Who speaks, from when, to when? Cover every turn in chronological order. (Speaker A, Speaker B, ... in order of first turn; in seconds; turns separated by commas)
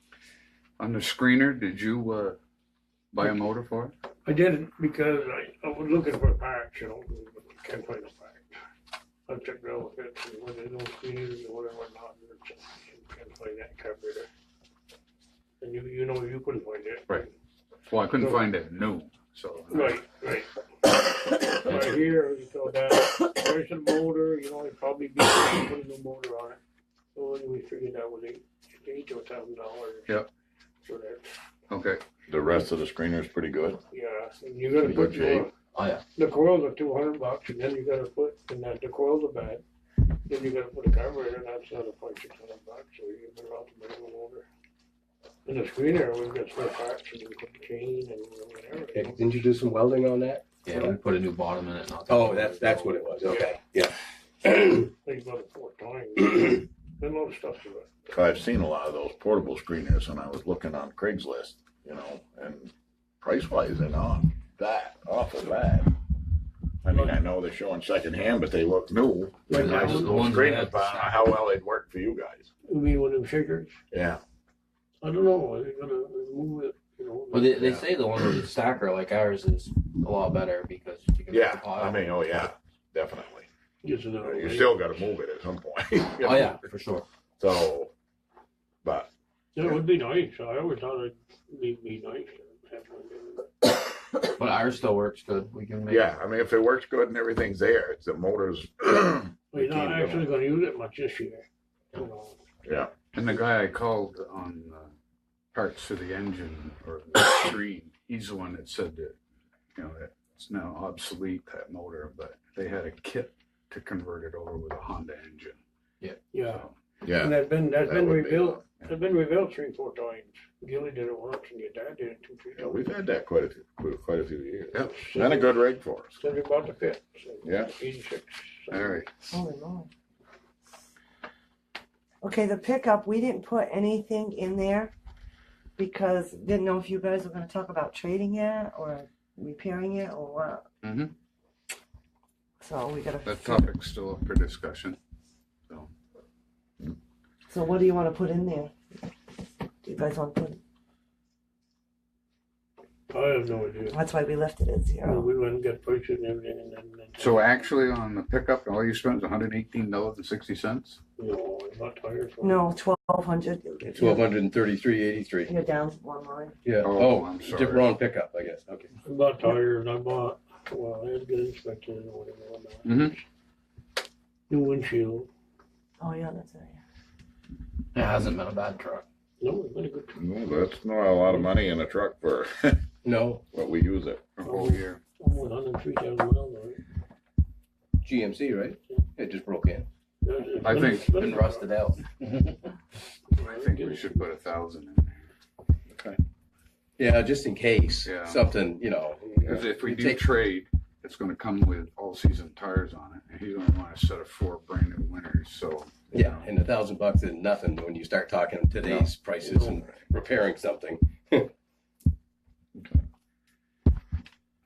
Speaker A: 0.8-2.4, Speaker A: 3.1-3.9, Speaker B: 4.2-8.6, Speaker B: 9.3-14.3, Speaker B: 15.6-17.3, Speaker A: 17.9-20.0, Speaker B: 19.7-26.6, Speaker B: 27.1-30.2, Speaker B: 30.8-31.4, Speaker A: 31.7-32.0, Speaker C: 32.3-33.8, Speaker B: 33.9-35.5, Speaker D: 34.8-36.0, Speaker B: 36.2-44.5, Speaker B: 45.5-49.5, Speaker E: 48.9-51.0, Speaker D: 50.6-53.5, Speaker E: 52.1-54.0, Speaker B: 54.5-58.1, Speaker E: 54.5-54.8, Speaker C: 58.1-65.9, Speaker C: 66.8-72.5, Speaker B: 66.9-67.2, Speaker B: 69.5-70.2, Speaker D: 69.5-71.2, Speaker B: 72.7-73.8, Speaker C: 73.9-74.2, Speaker B: 75.0-77.9, Speaker D: 77.3-82.1, Speaker C: 81.3-83.5, Speaker B: 83.8-84.8, Speaker C: 84.2-86.6, Speaker D: 86.2-87.0, Speaker C: 87.4-87.9, Speaker C: 88.8-89.1, Speaker B: 89.5-93.6, Speaker D: 94.3-96.1, Speaker C: 95.9-100.3, Speaker B: 99.5-102.4, Speaker C: 102.7-102.9, Speaker A: 103.1-104.9, Speaker A: 105.5-109.2, Speaker A: 109.8-115.6, Speaker B: 116.3-122.8, Speaker A: 116.5-116.8, Speaker C: 117.0-119.0, Speaker C: 122.6-126.2, Speaker B: 124.8-125.6, Speaker B: 126.2-129.1, Speaker C: 127.4-127.8, Speaker A: 128.7-129.1, Speaker F: 129.3-129.9, Speaker F: 132.2-134.9, Speaker F: 135.8-140.7, Speaker A: 140.8-141.1, Speaker F: 142.6-143.7, Speaker A: 143.2-145.0, Speaker F: 147.5-148.7, Speaker F: 149.8-150.6, Speaker B: 153.1-154.0, Speaker F: 153.8-155.3, Speaker B: 155.0-157.7, Speaker A: 157.2-161.0, Speaker B: 161.2-162.7, Speaker F: 162.4-164.3, Speaker E: 163.9-165.5, Speaker F: 165.4-166.6, Speaker E: 166.7-168.9, Speaker A: 166.8-167.9, Speaker B: 169.1-173.1, Speaker A: 172.8-173.2, Speaker B: 174.5-175.3, Speaker F: 176.0-176.8, Speaker D: 177.9-179.1, Speaker B: 179.4-180.2, Speaker C: 180.1-182.8, Speaker E: 183.0-183.4, Speaker C: 183.5-184.3, Speaker A: 184.4-185.0, Speaker B: 184.4-186.8, Speaker E: 188.0-189.9, Speaker B: 190.2-191.7, Speaker A: 190.6-191.3, Speaker D: 190.7-192.1, Speaker B: 193.3-194.1, Speaker A: 193.4-195.3, Speaker C: 195.9-196.2, Speaker E: 197.0-200.3, Speaker A: 198.1-198.4, Speaker A: 199.5-206.5, Speaker E: 206.1-211.5, Speaker B: 209.4-209.8, Speaker C: 212.8-213.0